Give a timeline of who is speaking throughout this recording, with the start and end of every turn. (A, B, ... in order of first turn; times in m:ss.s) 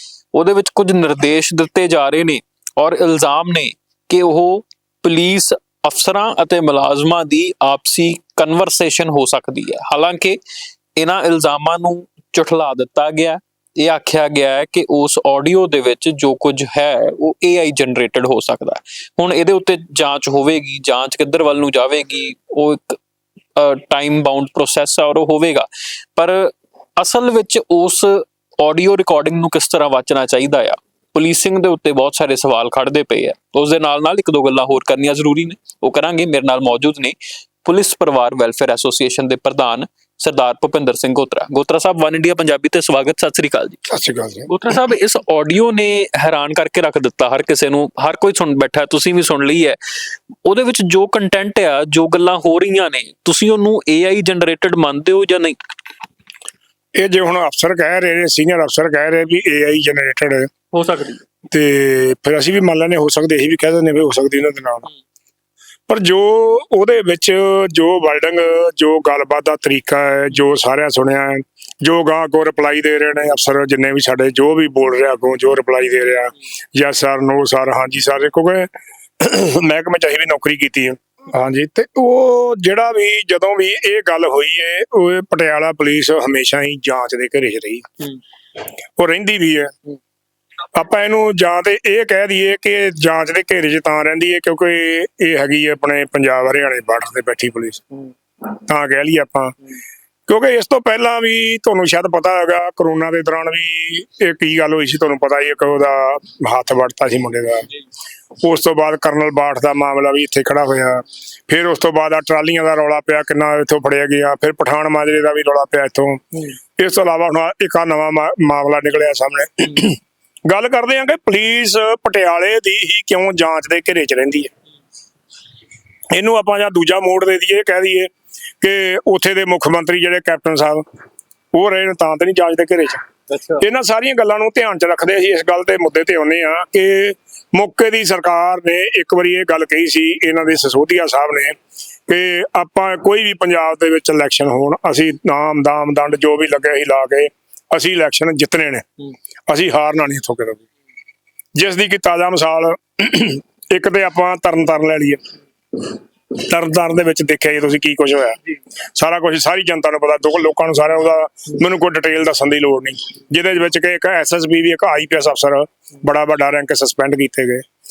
0:00.3-0:10.4 A
0:11.0-0:23.0 A
0:23.6-0:43.8 A
0:43.9-0:44.5 B
0:44.5-0:49.8 A
0:50.4-0:55.6 A
0:57.0-1:00.5 B
1:00.7-1:01.2 A
1:01.5-1:04.9 B
1:05.9-1:28.0 B
1:29.0-1:29.7 B
1:30.7-1:39.6 B
1:40.3-1:47.7 B
1:48.4-2:04.5 B
2:06.1-2:08.1 B
2:08.6-2:10.8 B
2:11.5-2:13.0 B
2:13.3-2:13.6 A
2:13.6-2:21.5 B
2:22.1-2:28.9 B
2:29.5-2:30.6 B
2:31.6-2:35.2 B
2:35.7-2:38.4 B
2:39.0-2:47.6 B